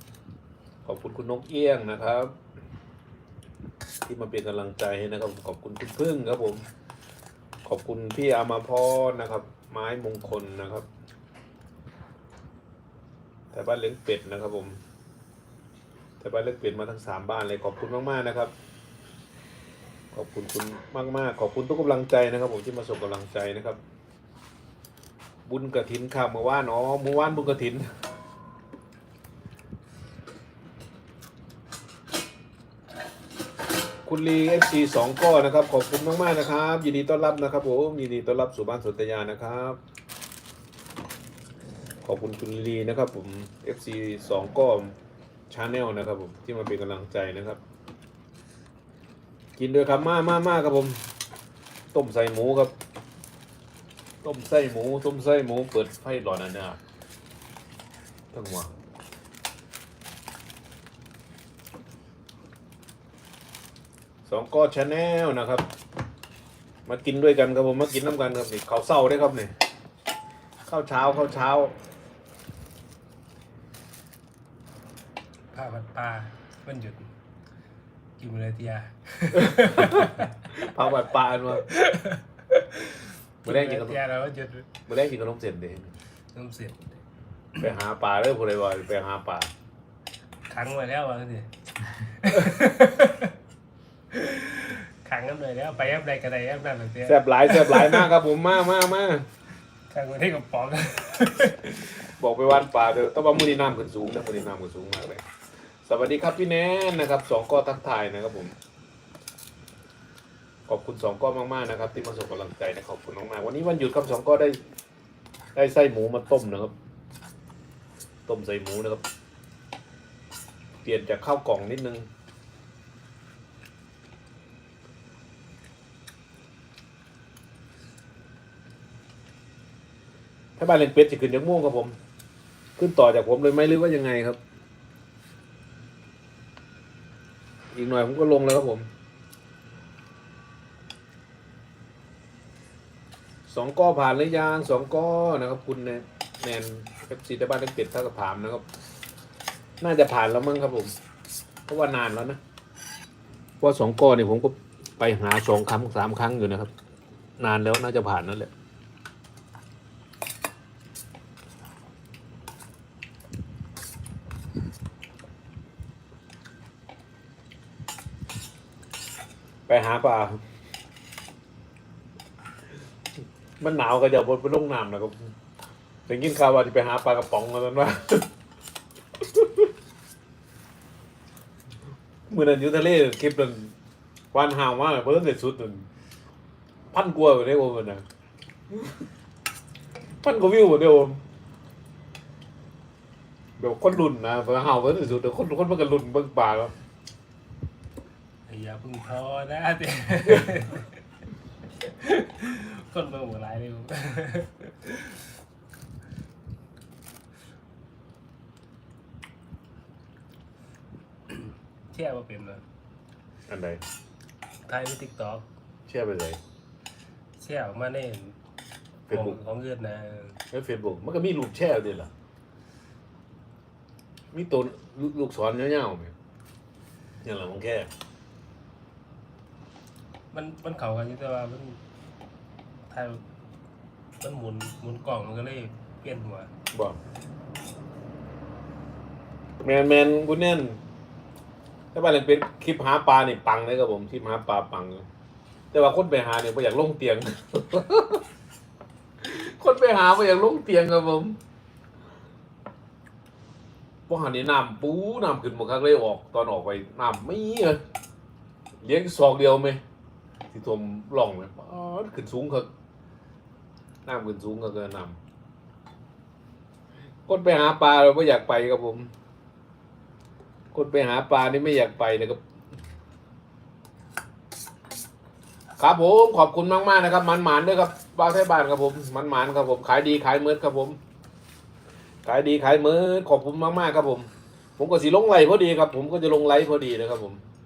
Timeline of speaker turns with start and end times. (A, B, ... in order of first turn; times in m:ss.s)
0:00.8-0:02.4 A
0:04.0-0:06.6 A
0:07.6-0:10.9 A
0:13.5-0:14.8 A
0:16.2-0:18.5 A
0:20.1-0:23.8 A
0:25.5-0:27.9 A
0:34.0-0:39.8 A
0:42.0-0:45.0 A
0:45.5-0:47.6 A
0:49.6-0:51.0 A
0:51.9-0:52.8 A
0:54.2-0:56.8 A
0:58.3-0:58.7 A
1:04.2-1:05.7 A
1:06.9-1:09.5 A
1:10.7-1:11.8 A
1:15.5-1:17.1 B
1:18.2-1:20.5 B
1:19.7-1:21.7 A
1:21.5-1:24.7 B
1:23.5-1:24.0 A
1:24.9-1:25.9 A
1:26.3-1:26.8 B
1:27.6-1:29.5 A
1:30.5-1:33.3 B
1:34.1-1:38.1 B
1:37.0-1:39.3 A
1:39.9-1:42.0 B
1:42.2-1:45.2 A
1:45.8-1:48.6 A
1:50.7-1:54.6 A
1:55.6-1:56.7 A
1:58.3-1:59.0 A
2:00.8-2:02.1 A
2:10.6-2:12.0 A
2:12.8-2:14.4 A
2:17.7-2:18.9 A
2:23.5-2:28.6 A
2:29.8-2:30.9 A
2:31.7-2:32.4 A
2:33.6-2:36.7 A
2:37.4-2:38.5 A
2:49.7-2:50.4 A
2:53.6-2:55.3 A
2:56.1-2:58.3 A
2:59.2-2:59.7 A
3:02.3-3:03.8 A
3:04.3-3:05.9 A
3:06.9-3:08.0 A
3:10.2-3:11.2 A
3:13.6-3:16.7 A
3:18.5-3:20.9 B
3:21.8-3:25.3 B
3:31.3-3:32.6 B
3:33.5-3:33.8 A
3:34.7-3:35.5 B
3:35.9-3:36.4 A
3:37.4-3:38.4 B
3:39.1-3:39.4 A
3:39.1-3:40.4 B
3:40.5-3:42.1 A
3:44.3-3:46.1 A
3:47.2-3:47.9 A
3:50.3-3:51.8 B
3:52.9-3:53.2 B
3:54.2-3:56.5 B
3:59.6-4:00.8 A
4:01.9-4:05.0 A
4:05.7-4:08.2 A
4:09.2-4:11.4 A
4:14.1-4:17.8 A
4:18.8-4:19.8 A
4:20.5-4:22.7 A
4:24.1-4:25.2 A
4:27.3-4:29.1 A
4:30.7-4:32.4 A
4:35.8-4:41.0 A
4:42.2-4:47.4 A